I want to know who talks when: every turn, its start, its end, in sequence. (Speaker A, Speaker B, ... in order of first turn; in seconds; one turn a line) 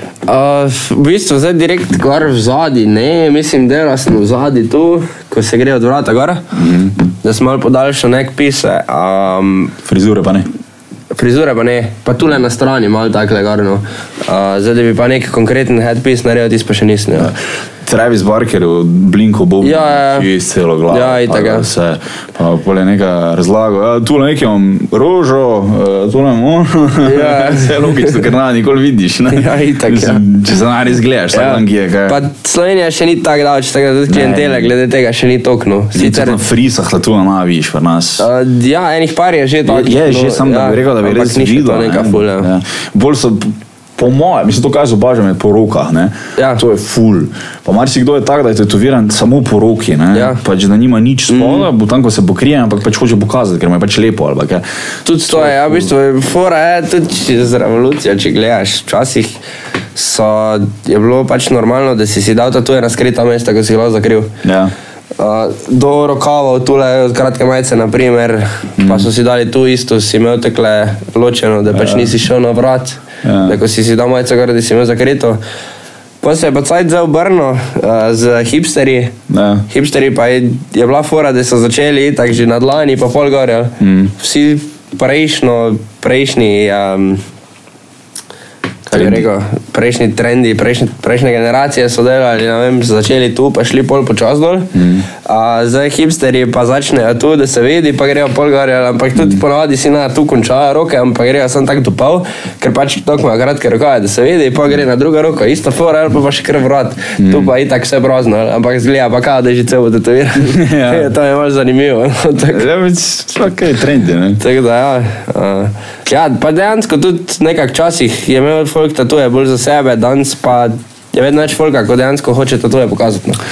Speaker A: 0.3-6.4
Speaker B: 6.5-7.0
Speaker A: 7.2-9.7
Speaker B: 9.8-10.5
Speaker A: 11.1-17.3
Speaker B: 17.1-32.2
Speaker A: 19.6-20.3
Speaker A: 20.9-21.7
Speaker A: 27.0-28.2
Speaker A: 29.3-30.2
Speaker A: 31.3-36.4
Speaker B: 34.1-34.7
Speaker B: 35.9-38.2
Speaker A: 38.2-42.5
Speaker B: 39.6-54.6
Speaker A: 50.1-50.4
Speaker A: 51.3-51.7
Speaker A: 55.0-59.4
Speaker B: 55.2-55.9
Speaker A: 59.9-64.3
Speaker B: 64.4-64.7
Speaker A: 65.2-75.4
Speaker B: 68.8-69.1
Speaker B: 71.7-72.1
Speaker B: 73.2-73.6
Speaker A: 76.2-79.2
Speaker B: 79.3-79.7
Speaker A: 79.7-87.2
Speaker B: 83.8-84.1
Speaker A: 88.9-112.7
Speaker B: 88.9-89.3
Speaker B: 94.7-95.1
Speaker B: 107.2-107.5
Speaker B: 110.4-111.1
Speaker B: 112.4-114.4
Speaker A: 114.4-123.4